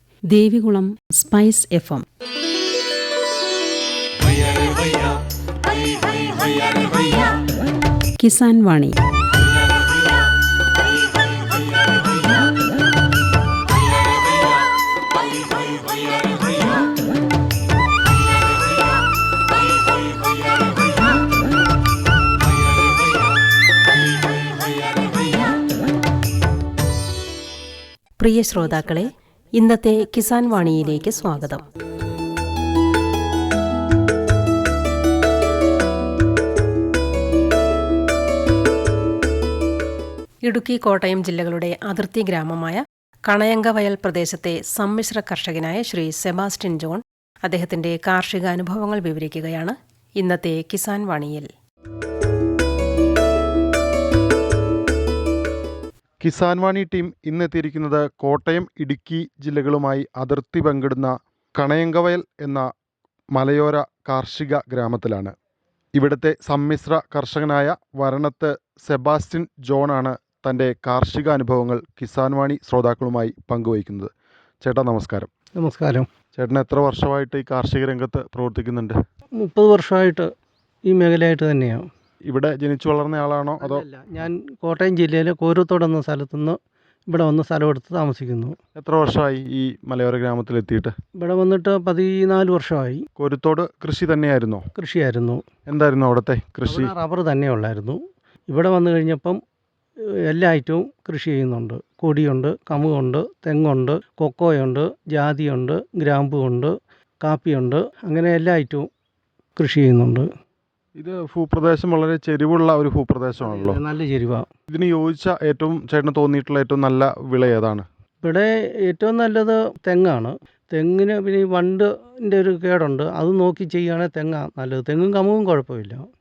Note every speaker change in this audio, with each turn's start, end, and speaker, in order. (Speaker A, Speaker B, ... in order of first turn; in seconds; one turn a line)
Speaker A: 0.3-2.0
Speaker A: 8.2-9.0
Speaker B: 28.2-31.6
Speaker B: 40.4-51.5
Speaker C: 56.2-62.7
Speaker C: 63.3-65.3
Speaker C: 66.0-75.3
Speaker D: 75.6-76.1
Speaker C: 76.3-79.0
Speaker D: 79.4-80.3
Speaker D: 80.9-81.8
Speaker C: 82.3-83.8
Speaker D: 83.6-86.6
Speaker D: 87.1-88.6
Speaker C: 88.8-90.9
Speaker D: 91.2-93.0
Speaker C: 93.2-94.6
Speaker D: 94.8-95.4
Speaker C: 95.7-96.9
Speaker D: 96.7-99.4
Speaker D: 100.3-108.9
Speaker D: 109.6-110.3
Speaker C: 111.0-113.8
Speaker D: 113.4-114.5
Speaker C: 114.7-117.9
Speaker D: 118.2-126.0